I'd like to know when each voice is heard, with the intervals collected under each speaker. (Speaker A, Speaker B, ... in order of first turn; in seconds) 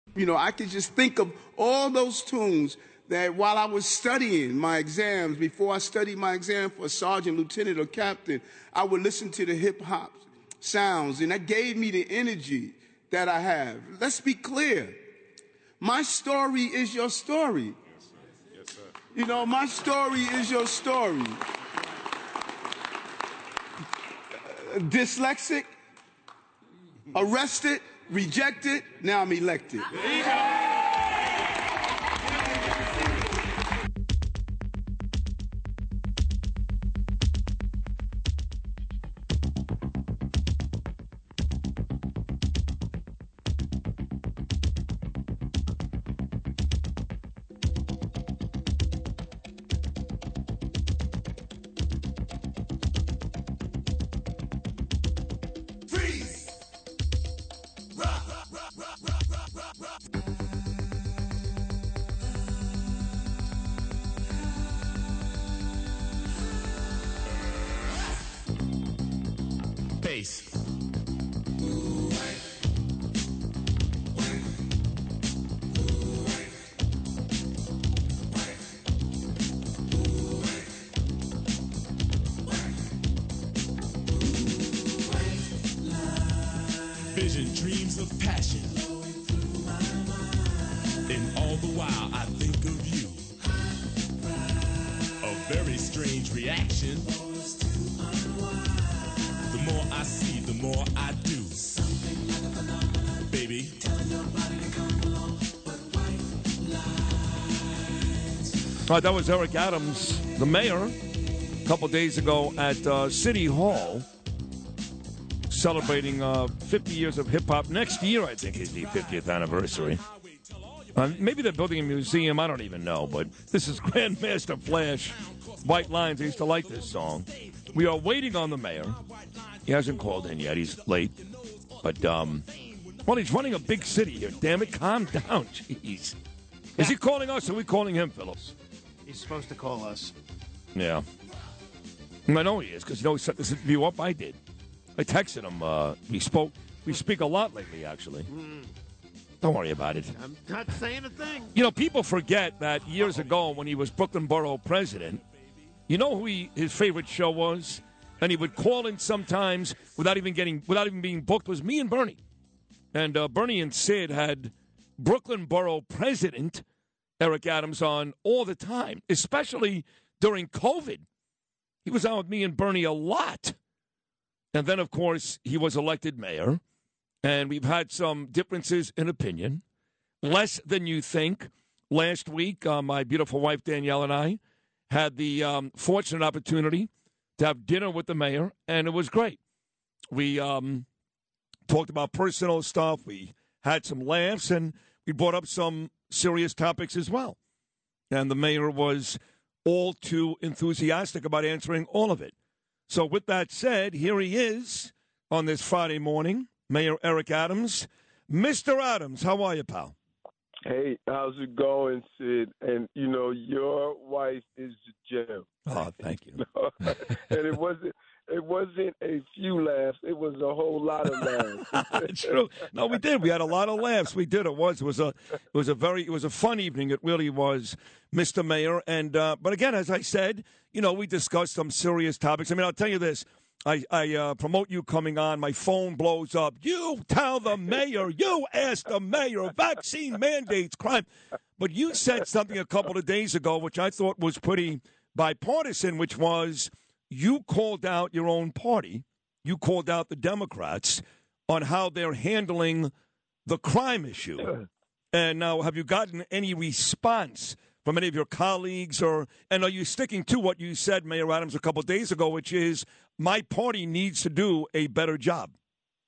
Speaker A: 0.1-15.0, 15.8-17.8, 19.1-21.4, 24.4-25.7, 27.1-29.9
Speaker B: 70.0-70.5, 87.0-88.9, 91.0-93.3, 95.2-97.2, 99.4-102.1, 103.2-104.6, 120.2-120.9, 129.1-129.6
Speaker C: 108.8-111.0, 111.6-114.1, 115.5-120.0, 121.0-129.0, 129.7-131.2, 131.8-132.4, 133.1-136.2, 136.8-138.5, 140.8-141.0, 142.3-144.4, 145.0-148.3, 149.4-150.2, 151.5-155.2, 155.9-162.2, 162.9-166.6, 167.2-171.1, 171.8-173.6, 174.5-176.6, 177.2-179.6, 180.2-184.4, 184.9-189.4, 190.1-190.9, 191.7-197.4, 198.1-202.3, 202.9-209.9, 215.7-217.0, 221.1-241.1, 241.6-252.9, 253.5-254.5, 255.1-265.5
Speaker D: 139.1-140.1, 150.2-151.5
Speaker E: 210.7-215.6, 216.4-222.3